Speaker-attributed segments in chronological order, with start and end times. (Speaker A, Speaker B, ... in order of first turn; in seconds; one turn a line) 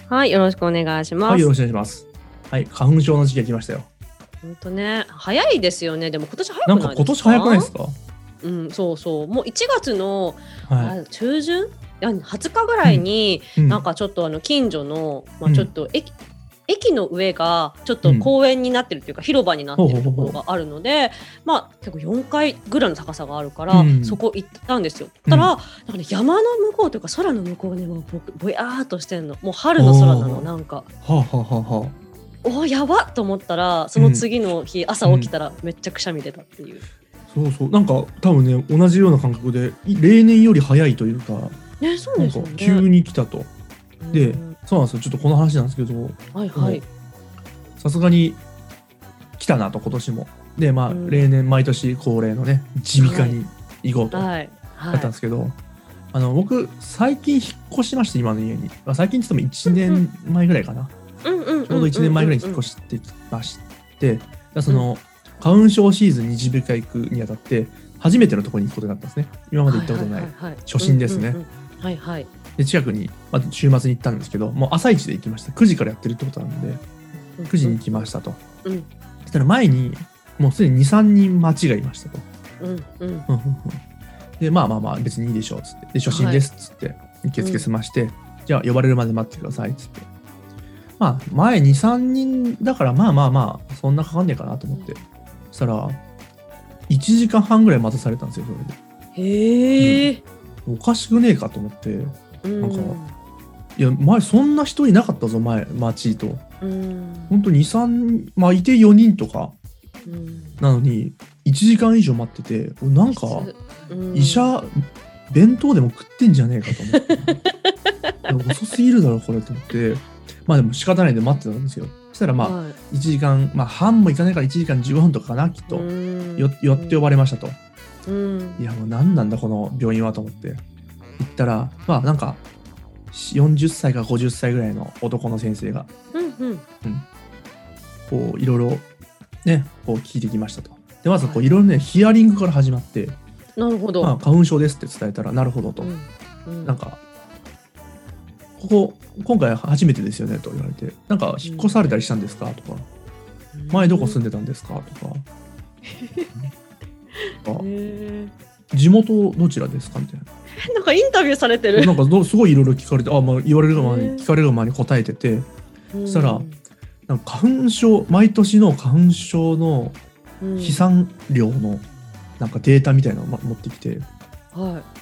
Speaker A: 0.1-1.5
Speaker B: 1.3-3.9
Speaker A: 4.4-7.7
Speaker B: 6.7-8.0
Speaker A: 8.4-16.1
Speaker B: 10.7-10.9
Speaker B: 13.6-13.8
Speaker B: 15.4-15.7
Speaker A: 16.7-30.9
Speaker B: 18.0-18.3
Speaker B: 19.8-20.4
Speaker B: 23.7-24.2
Speaker B: 25.3-25.5
Speaker B: 29.8-30.5
Speaker B: 31.0-32.0
Speaker A: 32.4-36.8
Speaker B: 34.0-34.3
Speaker B: 35.0-35.3
Speaker B: 37.3-41.6
Speaker A: 41.8-42.9
Speaker B: 42.2-43.5
Speaker A: 44.0-44.5
Speaker B: 44.1-46.8
Speaker A: 46.3-46.8
Speaker B: 47.8-48.4
Speaker B: 49.4-54.3
Speaker A: 50.9-51.2
Speaker A: 53.0-53.4
Speaker A: 54.1-55.1
Speaker B: 54.9-55.6
Speaker B: 56.1-60.9
Speaker A: 59.7-60.0
Speaker A: 61.2-62.6
Speaker B: 61.7-71.4
Speaker A: 68.1-68.4
Speaker A: 69.7-72.3
Speaker B: 72.6-76.8
Speaker A: 77.4-78.1
Speaker B: 77.5-78.4
Speaker B: 79.3-82.3
Speaker A: 82.6-83.3
Speaker B: 83.3-83.8
Speaker B: 84.4-90.1
Speaker A: 86.1-86.4
Speaker A: 87.4-87.7
Speaker B: 91.0-95.0
Speaker B: 95.5-96.0
Speaker B: 96.9-98.8
Speaker A: 99.2-100.2
Speaker B: 99.8-100.1
Speaker B: 100.7-103.0
Speaker A: 102.4-103.2
Speaker B: 103.8-106.5
Speaker A: 106.6-107.4
Speaker B: 107.3-109.5
Speaker A: 110.1-110.6
Speaker B: 110.6-113.5
Speaker A: 113.1-114.6
Speaker B: 114.1-117.4
Speaker A: 117.0-118.4
Speaker B: 118.3-127.6
Speaker A: 122.4-122.8
Speaker A: 125.7-127.0
Speaker A: 128.1-128.6
Speaker B: 128.6-130.6
Speaker B: 131.2-132.4
Speaker B: 133.1-135.9
Speaker A: 136.1-136.6
Speaker B: 138.1-138.9
Speaker B: 139.4-143.2
Speaker A: 143.6-144.1
Speaker B: 144.0-145.9
Speaker A: 145.8-146.8
Speaker B: 146.6-147.0
Speaker B: 148.6-152.9
Speaker A: 151.4-151.8
Speaker A: 153.5-154.2
Speaker B: 153.7-155.3
Speaker A: 155.9-156.3
Speaker A: 157.2-158.3
Speaker B: 158.7-160.3
Speaker A: 160.6-162.0
Speaker B: 161.8-165.5
Speaker A: 163.8-164.3
Speaker A: 165.9-166.6
Speaker B: 166.1-166.5
Speaker B: 167.1-170.0
Speaker A: 170.4-170.9
Speaker B: 170.6-171.9
Speaker B: 172.4-174.1
Speaker A: 174.5-174.9